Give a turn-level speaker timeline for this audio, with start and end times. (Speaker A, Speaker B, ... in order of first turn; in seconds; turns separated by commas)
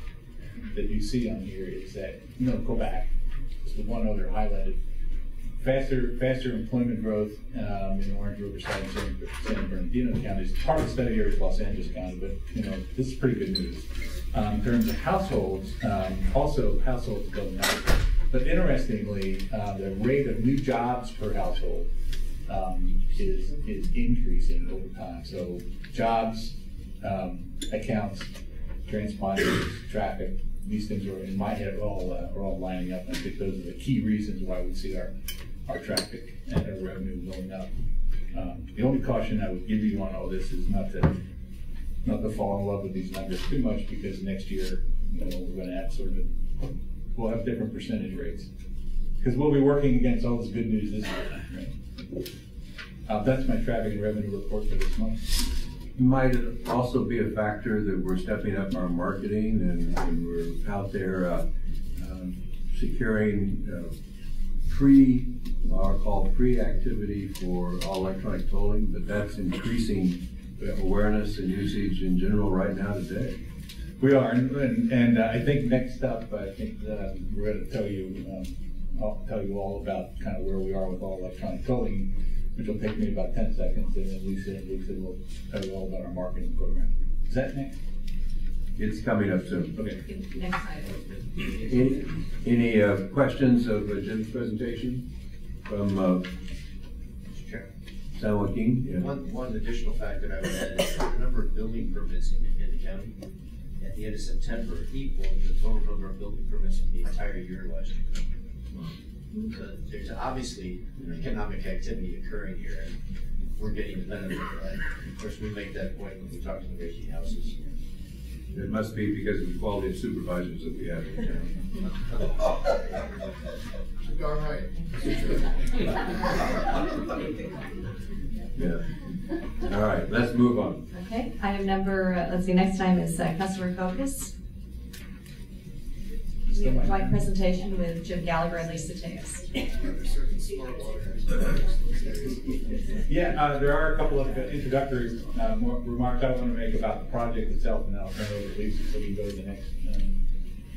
Speaker A: 0.7-3.1, Speaker A: 3.6-4.8, Speaker A: 5.6-21.9, Speaker A: 22.5-28.3, Speaker A: 28.8-35.1, Speaker A: 35.6-37.7, Speaker A: 38.3-41.2, Speaker A: 42.0-46.4, Speaker A: 47.1-48.5, Speaker A: 49.2-51.7, Speaker A: 53.1-55.4, Speaker B: 55.9-61.5, Speaker B: 62.0-63.9, Speaker B: 64.7-73.4, Speaker A: 74.0-87.8, Speaker B: 88.8-89.8, Speaker C: 90.4-90.9, Speaker B: 91.6-95.0, Speaker B: 95.7-96.3, Speaker D: 97.3-97.7, Speaker B: 98.1-99.1, Speaker D: 99.0-103.1, Speaker D: 103.8-108.2, Speaker D: 109.5-112.9, Speaker D: 113.5-117.6, Speaker B: 118.5-121.5, Speaker E: 124.1-125.5, Speaker B: 129.7-130.8, Speaker F: 130.9-134.3, Speaker C: 136.6-137.5, Speaker F: 136.6-139.4, Speaker C: 138.3-139.1, Speaker E: 139.8-142.6, Speaker A: 143.0-150.2